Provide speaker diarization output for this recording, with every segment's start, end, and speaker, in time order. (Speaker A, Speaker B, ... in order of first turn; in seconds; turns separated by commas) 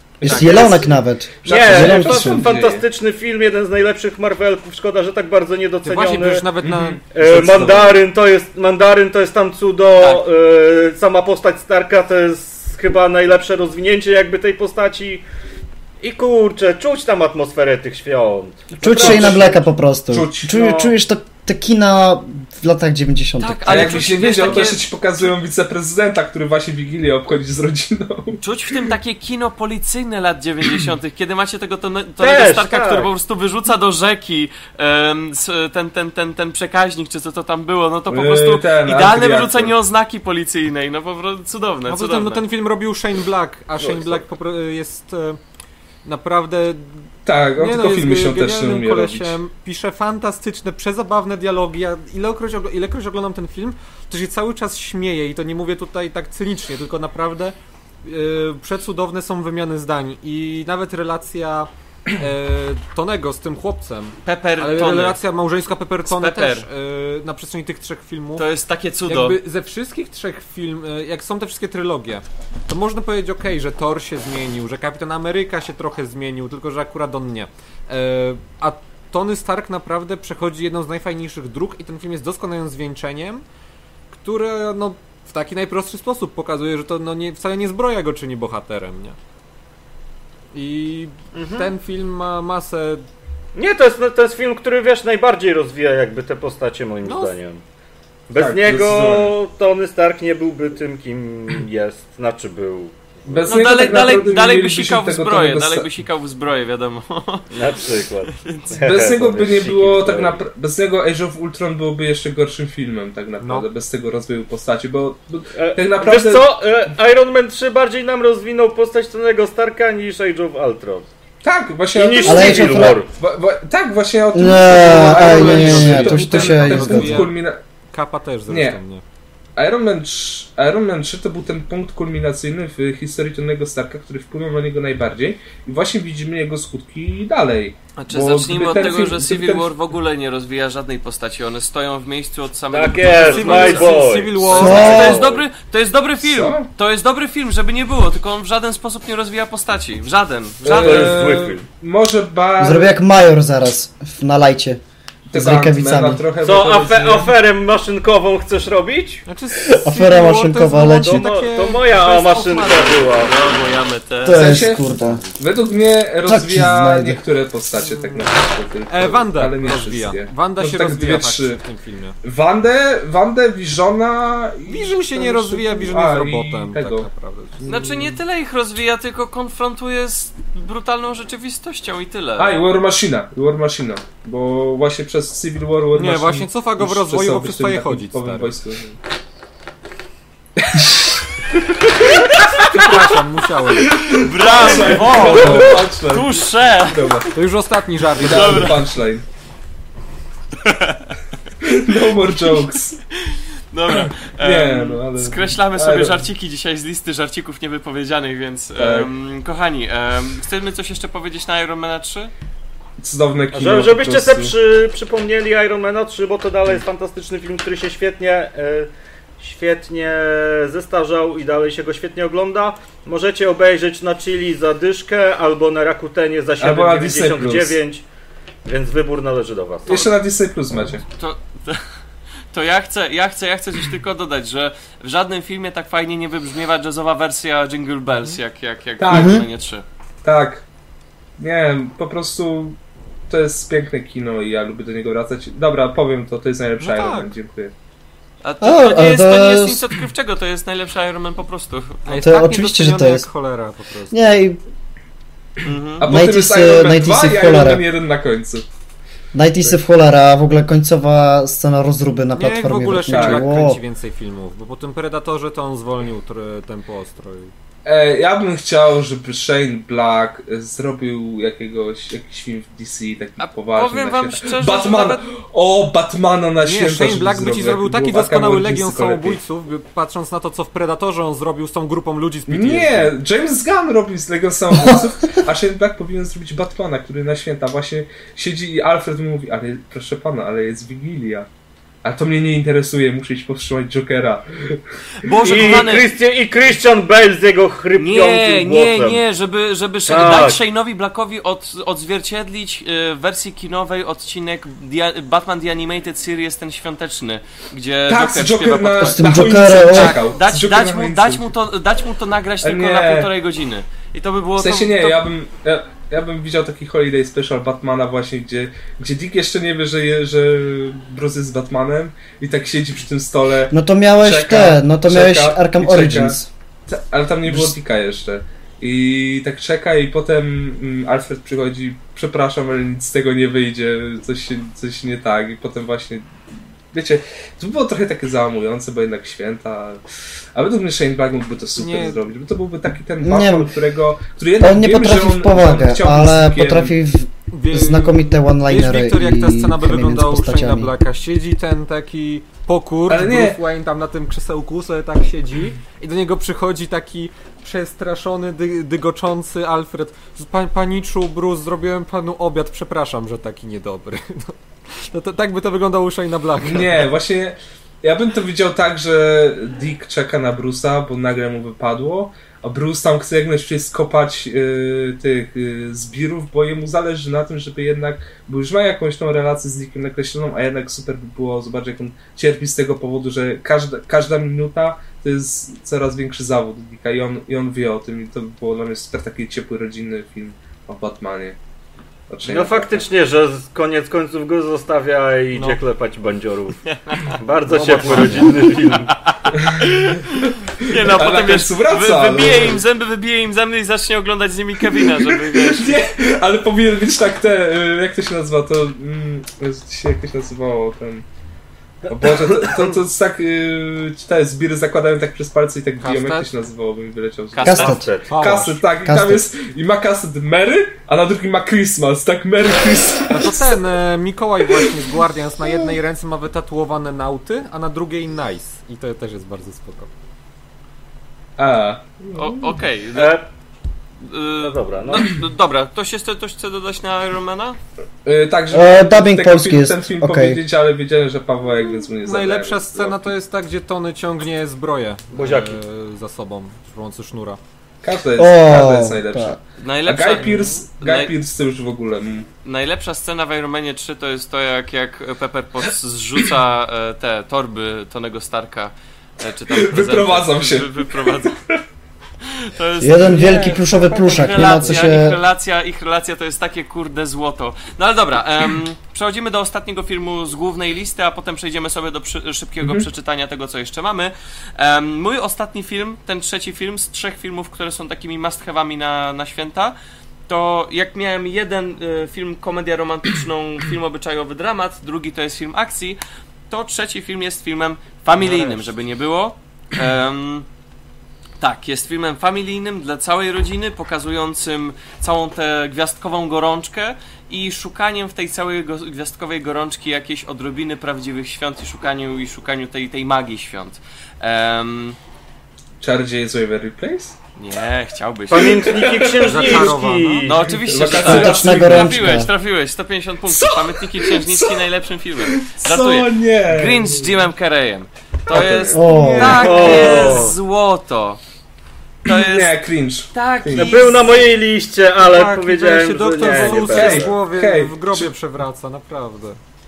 Speaker A: 0.2-0.9, Speaker B: 0.2-0.9, Speaker C: 0.2-2.4, Speaker A: 1.4-2.9, Speaker D: 1.4-6.5, Speaker E: 5.8-7.0, Speaker A: 6.6-7.9, Speaker D: 7.1-15.2, Speaker B: 10.0-10.3, Speaker D: 16.0-19.7, Speaker C: 18.8-24.1, Speaker A: 18.8-19.6, Speaker A: 20.1-20.6, Speaker D: 20.5-20.9, Speaker B: 23.4-24.9, Speaker A: 23.6-28.4, Speaker B: 28.4-42.4, Speaker D: 32.2-33.1, Speaker A: 38.1-39.7, Speaker E: 41.9-45.4, Speaker D: 43.8-44.2, Speaker E: 46.0-47.0, Speaker A: 47.2-49.4, Speaker E: 47.6-68.4, Speaker B: 64.2-65.2, Speaker B: 66.1-66.7, Speaker B: 68.4-69.4, Speaker E: 69.1-83.4, Speaker E: 84.1-89.2, Speaker E: 90.5-93.0, Speaker D: 91.3-91.7, Speaker D: 93.5-97.6, Speaker E: 97.0-97.4, Speaker D: 98.3-103.7, Speaker A: 98.4-99.3, Speaker A: 103.3-105.9, Speaker B: 103.5-107.7, Speaker D: 107.5-110.4, Speaker B: 108.3-108.7, Speaker A: 108.8-116.5, Speaker E: 113.4-113.7, Speaker D: 115.5-121.1, Speaker A: 121.4-127.6, Speaker D: 122.0-123.1, Speaker C: 122.2-123.0, Speaker C: 124.3-127.3, Speaker E: 124.8-127.4, Speaker E: 127.9-129.0, Speaker A: 128.5-128.8, Speaker A: 129.6-139.7, Speaker B: 138.0-151.2, Speaker D: 142.7-145.4, Speaker E: 143.2-145.2, Speaker C: 144.5-145.2, Speaker A: 146.2-146.7, Speaker A: 150.6-152.9, Speaker D: 150.7-151.6, Speaker C: 152.6-154.8, Speaker A: 155.3-157.3, Speaker C: 155.3-156.2, Speaker D: 156.4-159.2, Speaker E: 159.3-163.6, Speaker C: 159.7-161.3, Speaker D: 160.9-163.3, Speaker B: 163.2-164.7, Speaker C: 164.2-165.2, Speaker A: 164.3-164.8, Speaker A: 165.4-171.6, Speaker C: 166.3-167.2, Speaker E: 167.8-168.4, Speaker E: 168.9-172.2, Speaker A: 172.2-177.1, Speaker E: 174.7-177.7, Speaker A: 177.6-178.2, Speaker B: 177.7-182.6, Speaker A: 182.4-189.0, Speaker E: 185.9-188.5, Speaker A: 190.6-191.1, Speaker B: 192.3-193.0, Speaker E: 192.6-194.0, Speaker B: 193.9-197.1, Speaker A: 194.0-197.3, Speaker D: 194.6-195.8, Speaker E: 197.3-198.8, Speaker A: 198.2-199.2, Speaker B: 198.2-198.8, Speaker B: 200.6-201.1, Speaker A: 201.6-203.0, Speaker B: 203.2-212.3, Speaker A: 204.4-206.2, Speaker A: 208.8-209.1, Speaker A: 213.0-214.5, Speaker D: 213.5-228.1, Speaker A: 226.6-227.8, Speaker D: 228.7-230.1, Speaker A: 229.9-231.0, Speaker B: 231.2-231.8, Speaker B: 232.5-239.8, Speaker A: 239.0-239.4, Speaker C: 239.1-239.4, Speaker A: 240.2-240.7, Speaker A: 241.4-247.7, Speaker E: 246.8-247.3, Speaker B: 248.4-252.3, Speaker C: 248.6-249.9, Speaker E: 252.1-254.2, Speaker C: 252.2-253.3, Speaker C: 254.1-254.6, Speaker B: 255.6-256.0, Speaker A: 256.0-258.7, Speaker C: 256.0-257.9, Speaker C: 259.3-263.8, Speaker E: 262.4-267.5, Speaker A: 263.1-263.5, Speaker A: 267.9-279.4, Speaker B: 273.4-275.2, Speaker E: 276.6-283.1, Speaker A: 282.5-291.5, Speaker C: 284.7-285.4, Speaker A: 292.0-294.8, Speaker B: 295.2-296.1, Speaker D: 295.4-299.2, Speaker B: 298.0-315.2, Speaker D: 300.1-300.6, Speaker A: 308.1-311.5, Speaker C: 309.0-310.2, Speaker A: 312.6-313.3, Speaker A: 314.6-326.4, Speaker C: 323.7-326.5, Speaker A: 326.9-336.3, Speaker C: 327.5-327.8, Speaker A: 336.9-346.9, Speaker E: 341.8-342.2, Speaker C: 343.2-343.7, Speaker C: 344.6-350.9, Speaker E: 347.5-367.1, Speaker A: 353.1-353.6, Speaker A: 366.6-391.6, Speaker A: 392.3-393.0, Speaker D: 392.4-399.1, Speaker E: 395.5-395.8, Speaker B: 396.9-397.2, Speaker E: 397.7-398.6, Speaker B: 398.4-406.0, Speaker A: 399.5-400.1, Speaker A: 400.8-402.8, Speaker A: 405.1-411.2, Speaker A: 412.1-423.8, Speaker E: 416.0-416.5, Speaker B: 417.5-418.0, Speaker C: 417.6-418.1, Speaker D: 417.7-418.8, Speaker E: 418.3-418.8, Speaker C: 419.0-419.5, Speaker E: 423.3-430.1, Speaker A: 431.6-432.8, Speaker B: 432.4-433.4, Speaker D: 433.1-433.4, Speaker B: 434.2-437.8, Speaker D: 434.6-435.3, Speaker A: 438.2-443.2, Speaker C: 438.7-440.6, Speaker E: 442.2-447.6, Speaker D: 445.3-445.8, Speaker A: 448.0-452.5, Speaker C: 448.4-449.6, Speaker B: 449.8-451.3, Speaker D: 450.4-450.8, Speaker B: 452.6-461.6, Speaker A: 459.7-461.8, Speaker B: 462.4-479.9, Speaker C: 463.0-465.4, Speaker A: 472.8-473.1, Speaker B: 480.5-486.2, Speaker B: 486.7-490.7, Speaker B: 491.6-505.2, Speaker A: 506.0-507.4, Speaker B: 507.6-508.9, Speaker D: 508.5-510.6, Speaker A: 508.8-509.7, Speaker E: 509.4-510.6, Speaker B: 510.5-521.4, Speaker A: 510.8-512.4, Speaker C: 511.2-512.5, Speaker A: 513.5-514.9, Speaker A: 515.4-517.2, Speaker A: 518.5-519.0, Speaker C: 518.9-519.9, Speaker E: 519.0-520.5, Speaker D: 519.4-520.6, Speaker B: 522.2-522.7, Speaker A: 522.2-524.1, Speaker B: 523.3-524.5, Speaker D: 523.7-527.3, Speaker E: 525.2-529.6, Speaker A: 526.5-528.3